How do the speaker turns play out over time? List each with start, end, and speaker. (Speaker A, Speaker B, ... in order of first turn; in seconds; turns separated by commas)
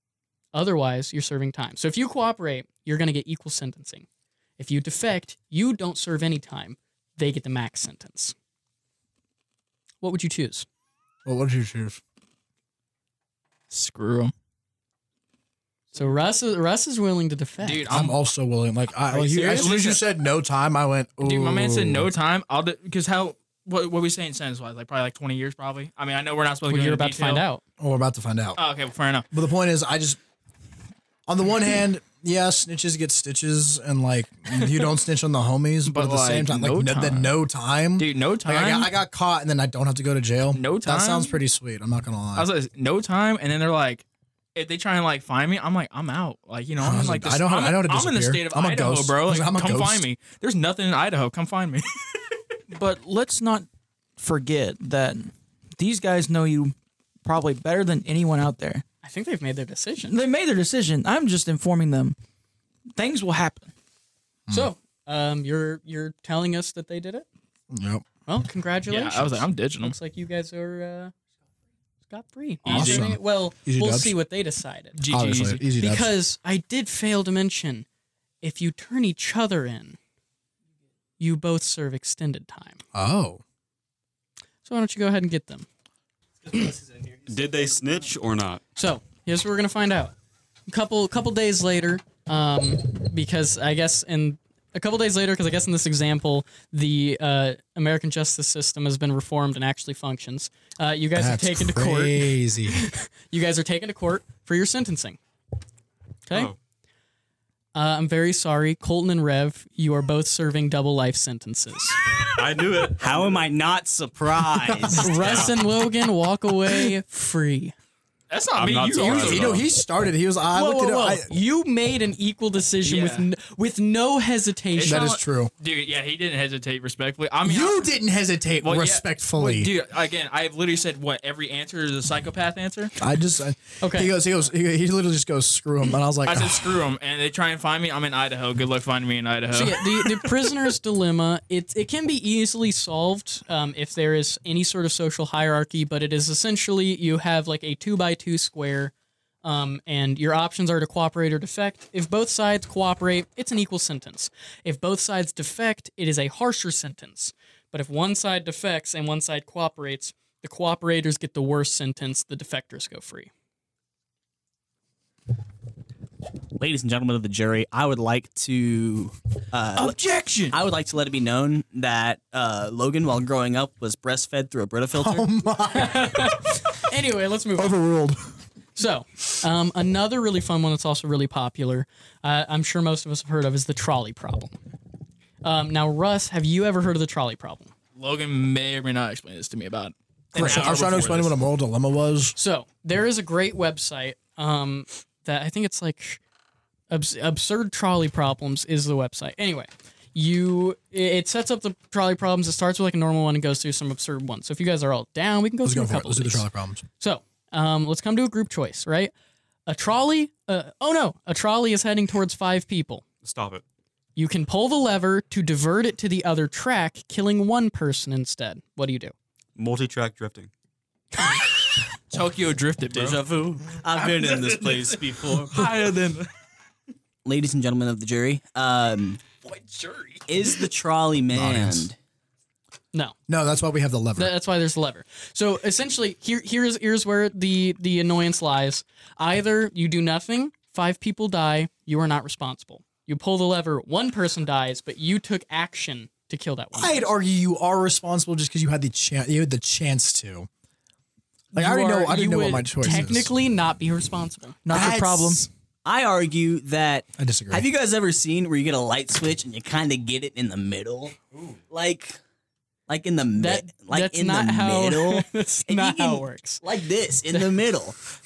Speaker A: 0.5-4.0, Speaker A: 4.6-8.3, Speaker A: 10.0-10.7, Speaker B: 11.2-12.0, Speaker C: 13.7-14.3, Speaker A: 15.9-18.0, Speaker C: 17.6-18.2, Speaker B: 17.9-22.1, Speaker A: 19.1-19.7, Speaker C: 19.1-20.0, Speaker C: 21.2-27.4, Speaker A: 26.7-27.6, Speaker B: 27.8-28.6, Speaker C: 28.6-29.3, Speaker B: 29.3-30.2, Speaker B: 31.3-42.5, Speaker C: 35.8-37.4, Speaker C: 38.0-38.9, Speaker C: 40.5-41.4, Speaker C: 42.4-51.8, Speaker B: 46.8-50.0, Speaker D: 52.7-58.8, Speaker A: 59.0-60.2, Speaker D: 60.1-62.1, Speaker D: 62.9-63.7, Speaker A: 64.5-67.2, Speaker B: 67.7-68.0, Speaker A: 68.3-71.1, Speaker C: 68.9-69.9, Speaker A: 72.1-75.0, Speaker C: 72.6-73.1, Speaker B: 72.7-74.1, Speaker C: 75.0-75.6, Speaker B: 75.1-76.1, Speaker A: 75.8-77.8, Speaker A: 78.4-80.0, Speaker A: 81.2-82.8, Speaker B: 82.9-83.4, Speaker A: 84.6-85.7, Speaker E: 86.6-87.2, Speaker F: 87.3-88.6, Speaker A: 88.8-90.1, Speaker A: 90.7-105.2, Speaker B: 101.2-102.8, Speaker A: 106.3-106.5, Speaker F: 106.3-106.5, Speaker A: 107.7-112.0, Speaker F: 112.2-113.5, Speaker E: 113.0-115.5, Speaker B: 114.7-115.0, Speaker A: 115.0-117.7, Speaker F: 115.1-115.5, Speaker C: 118.3-119.6, Speaker F: 118.5-119.6, Speaker B: 119.1-121.4, Speaker A: 120.5-125.2, Speaker C: 122.8-123.3, Speaker C: 124.7-127.9, Speaker B: 124.8-125.5, Speaker B: 127.4-129.7, Speaker C: 128.6-132.9, Speaker B: 133.0-136.8, Speaker A: 133.8-134.1, Speaker C: 136.2-140.3, Speaker A: 139.5-163.3, Speaker E: 166.6-170.0, Speaker D: 169.8-170.6, Speaker E: 170.5-175.3, Speaker B: 174.9-176.5, Speaker A: 175.7-177.8, Speaker B: 177.6-178.3, Speaker A: 178.8-184.6, Speaker A: 185.4-187.7, Speaker C: 187.9-191.3, Speaker B: 190.3-192.3, Speaker A: 192.3-196.2, Speaker A: 196.9-206.4, Speaker B: 205.6-206.8, Speaker A: 207.0-209.1, Speaker A: 209.7-213.0, Speaker F: 213.2-213.6, Speaker A: 214.2-219.1, Speaker F: 219.6-220.5, Speaker C: 222.1-223.2, Speaker E: 222.9-225.9, Speaker C: 224.0-226.3, Speaker E: 227.2-229.2, Speaker C: 229.4-230.2, Speaker E: 230.3-232.0, Speaker B: 231.3-231.9, Speaker B: 233.3-234.3, Speaker A: 234.2-247.1, Speaker B: 246.7-250.5, Speaker B: 251.5-253.3, Speaker A: 251.5-254.6, Speaker D: 254.6-255.5, Speaker B: 254.7-255.5, Speaker E: 255.8-262.2, Speaker B: 257.2-257.7, Speaker E: 262.9-268.0, Speaker A: 263.4-266.6